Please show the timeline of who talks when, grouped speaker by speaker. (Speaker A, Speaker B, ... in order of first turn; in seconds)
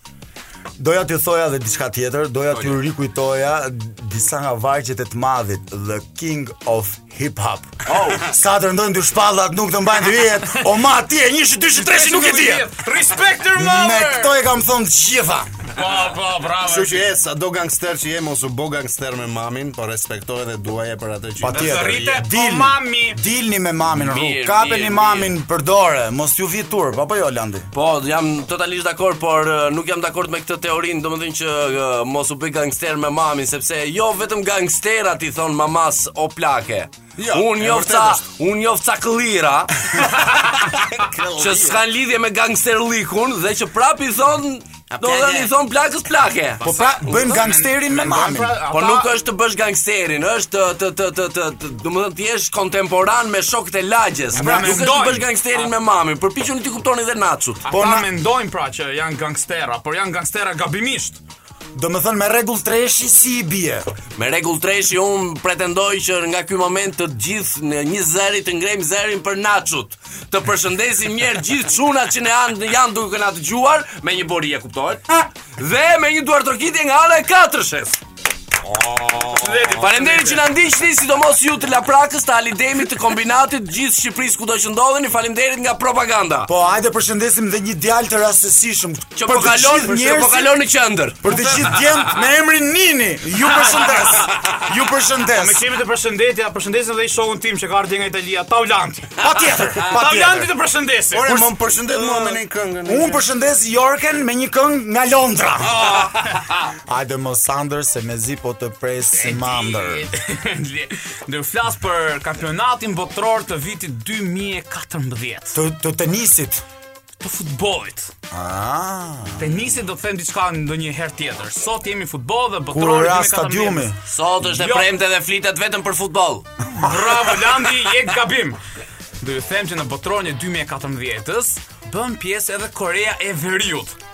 Speaker A: 0.8-12.7, 13.5-15.5, 21.4-27.7, 46.6-48.6, 54.4-54.7, 57.7-58.1, 61.7-63.9, 86.5-90.5, 91.2-95.6, 99.2-100.5, 101.2-110.1, 115.5-116.6, 118.3-119.8, 122.7-124.0, 126.6-127.5
Speaker B: 7.9-8.3, 23.9-25.4, 27.7-40.5, 41.3-47.3, 48.7-57.6, 64.2-78.0, 79.8-86.5, 89.2-91.6, 124.1-126.4
Speaker C: 11.8-14.4, 15.7-17.1, 21.4-23.2, 46.6-49.1, 54.3-55.7, 57.6-61.2, 79.3-80.5, 95.3-101.4, 109.1-115.6, 117.2-118.1, 119.4-124.9, 126.8-128.6, 129.2-133.9
Speaker D: 16.6-22.0, 37.1-38.2, 40.5-41.8, 44.9-45.5, 78.6-79.7, 101.1-103.2